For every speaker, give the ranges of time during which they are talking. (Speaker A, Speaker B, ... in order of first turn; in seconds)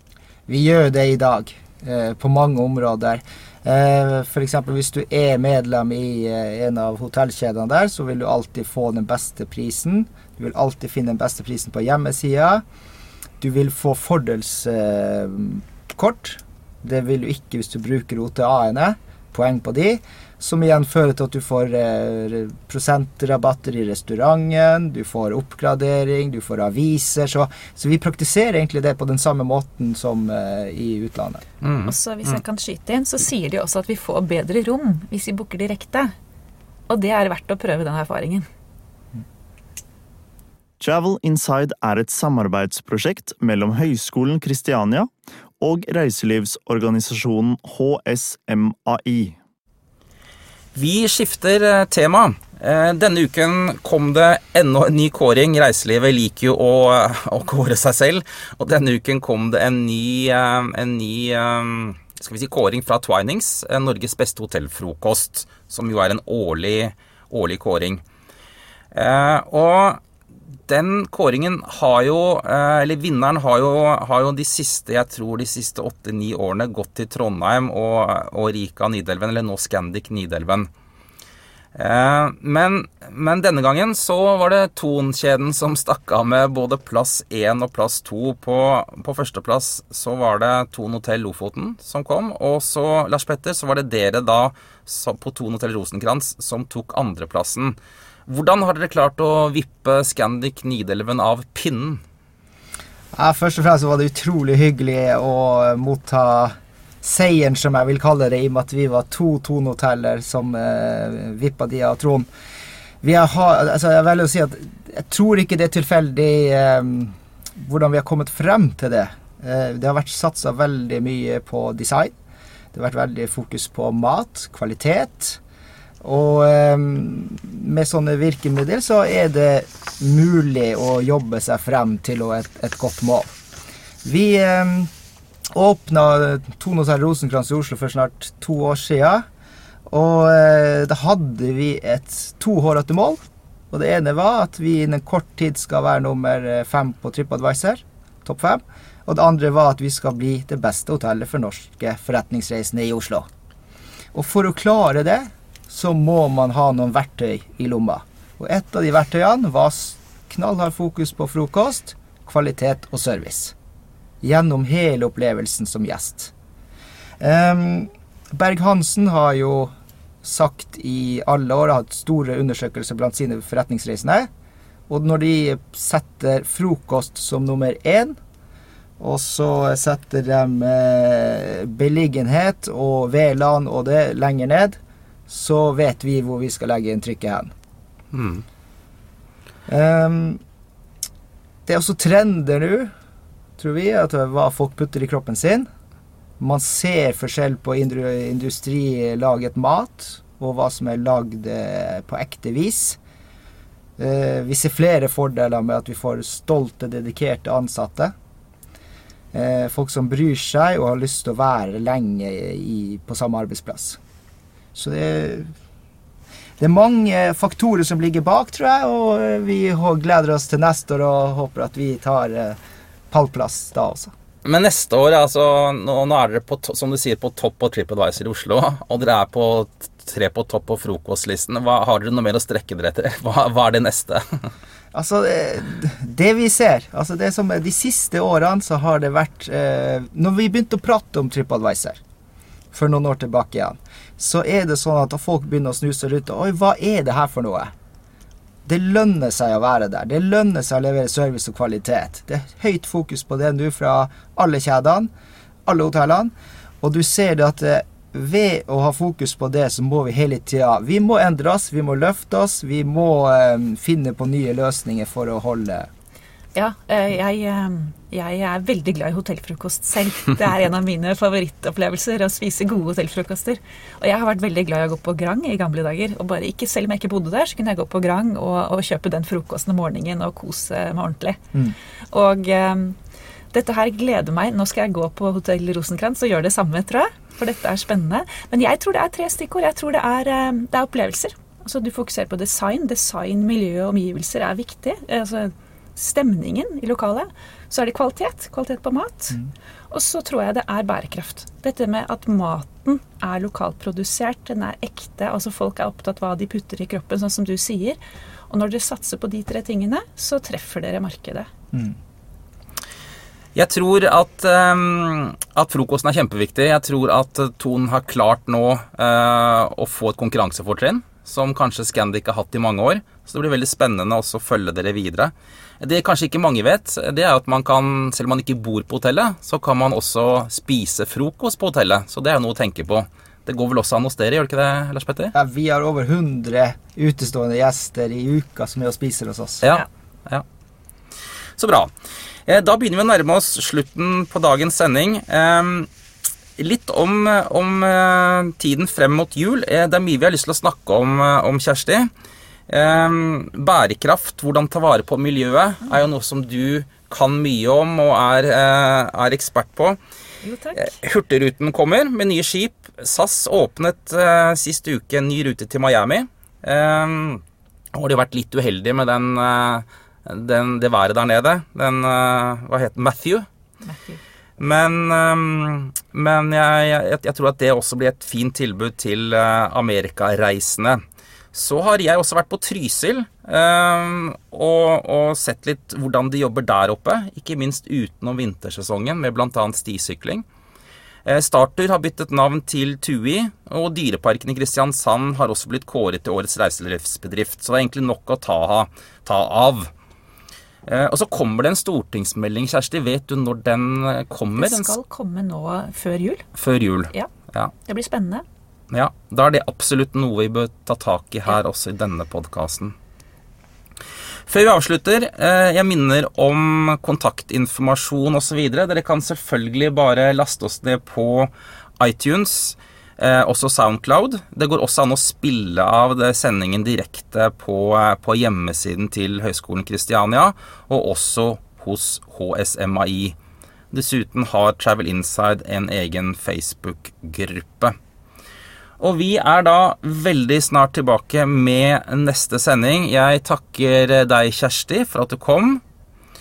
Speaker A: 0.5-12.6, 13.4-31.4, 103.1-112.3, 113.0-122.2, 122.7-125.4, 126.0-133.3, 134.0-134.9, 135.5-139.3, 139.9-153.3, 154.1-163.5, 164.2-166.3, 167.2-169.7, 170.2-174.3, 174.9-178.2, 179.0-184.8, 185.3-187.5, 189.7-190.4, 191.7-192.9, 193.6-195.7, 196.4-203.0, 204.0-208.1, 209.3-214.0, 214.7-215.5, 216.6-222.6, 223.1-224.1, 234.9-242.0, 242.7-247.7, 248.6-255.1, 255.7-265.9, 335.3-339.6
Speaker B: 31.6-31.9, 50.7-68.0, 68.9-70.0, 70.7-80.7, 81.7-102.0, 188.1-188.4, 224.4-234.2, 313.5-335.3, 339.6-340.4, 341.6-341.9, 342.5-345.9, 346.6-352.1, 352.7-360.0, 360.8-367.4, 367.9-373.5, 374.6-381.0, 381.5-390.4, 391.2-399.9, 400.9-404.9, 406.6-407.7, 408.9-412.9, 414.5-433.3, 433.9-437.9, 439.0-445.8
Speaker C: 31.9-36.1, 36.9-38.5, 266.5-281.4, 282.1-283.0, 283.5-299.4, 299.9-308.0, 308.5-311.5, 360.4-360.9, 373.8-374.2, 404.6-406.5, 407.8-408.4
Speaker D: 40.8-49.4